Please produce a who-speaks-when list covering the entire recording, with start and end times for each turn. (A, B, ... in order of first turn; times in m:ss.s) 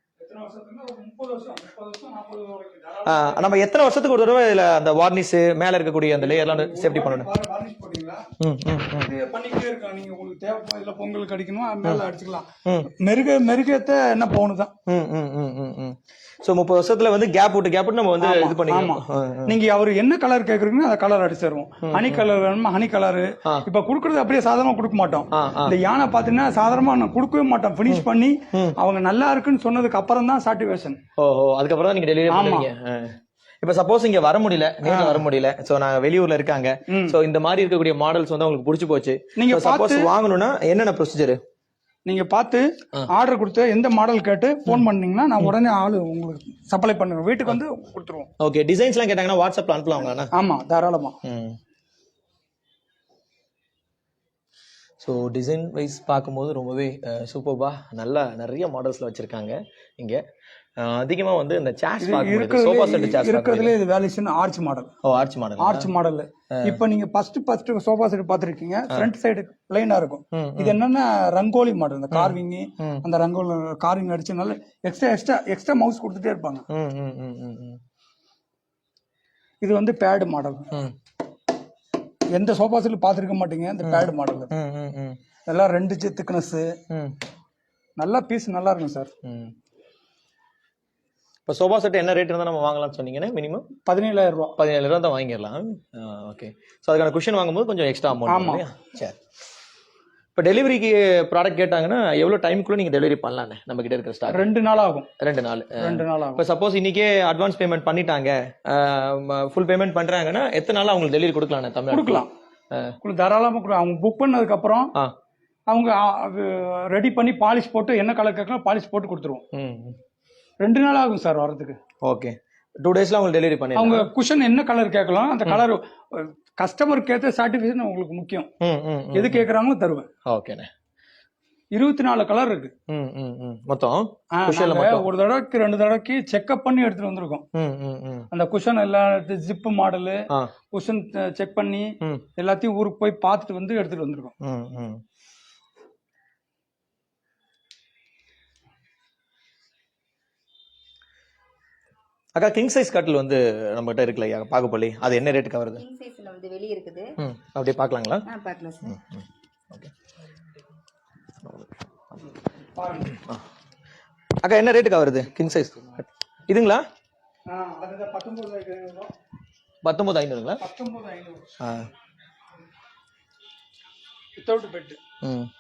0:00.2-0:03.5 A
0:03.1-0:07.3 B
0:06.1-0:08.3 A
0:08.4-0:09.1 B
0:09.0-0:14.7 A
0:14.9-0:19.6 B
0:18.2-0:31.0 A
0:21.8-0:22.2 B
0:25.3-0:25.8 B
0:27.9-0:28.8 B
0:31.2-0:41.4 B
0:32.3-0:32.7 A
0:34.8-0:35.2 A
0:36.9-0:37.2 A
0:39.4-0:40.1 A
0:42.1-0:48.3 A
0:48.4-0:50.3 B
0:50.3-0:51.2 A
0:51.2-0:51.6 B
0:55.0-1:00.2 B
1:00.8-1:03.8 B
1:02.0-1:04.9 A
1:05.0-1:05.9 B
1:05.6-1:16.6 A
1:06.5-1:06.8 B
1:10.3-1:10.8 B
1:12.1-1:13.0 B
1:16.7-1:17.8 B
1:19.6-1:20.7 A
1:22.3-1:24.5 A
1:23.8-1:25.2 B
1:25.5-1:26.7 A
1:26.9-1:27.2 B
1:28.0-1:29.1 A
1:29.2-1:29.5 B
1:31.5-1:33.7 B
1:33.9-1:34.6 A
1:34.6-1:39.2 B
1:38.3-1:38.6 A
1:40.4-1:44.4 B
1:44.3-1:45.1 A
1:45.2-1:52.9 B
1:45.8-1:46.4 A
1:51.9-1:52.3 A
1:53.0-1:54.9 A
1:55.7-1:59.4 A
1:59.5-2:00.0 B
2:00.6-2:01.8 A
2:02.0-2:04.1 B
2:03.8-2:08.5 A
2:08.6-2:09.5 B
2:09.1-2:10.1 A
2:10.3-2:10.7 B
2:11.7-2:12.7 A
2:12.9-2:15.1 B
2:14.3-2:17.4 A
2:17.6-2:18.3 B
2:18.3-2:24.3 A
2:24.4-2:25.0 B
2:32.4-2:35.8 B
2:35.8-2:37.1 C
2:37.2-2:38.3 B
2:38.3-2:39.0 C
2:38.9-2:39.9 B
2:42.8-2:43.1 A
2:43.1-2:43.4 B
2:44.4-2:46.8 B
2:47.5-2:49.1 A
2:49.8-2:50.6 B
2:50.6-2:51.5 A
2:51.6-2:51.9 B
2:54.4-2:55.0 A
2:55.2-2:55.5 B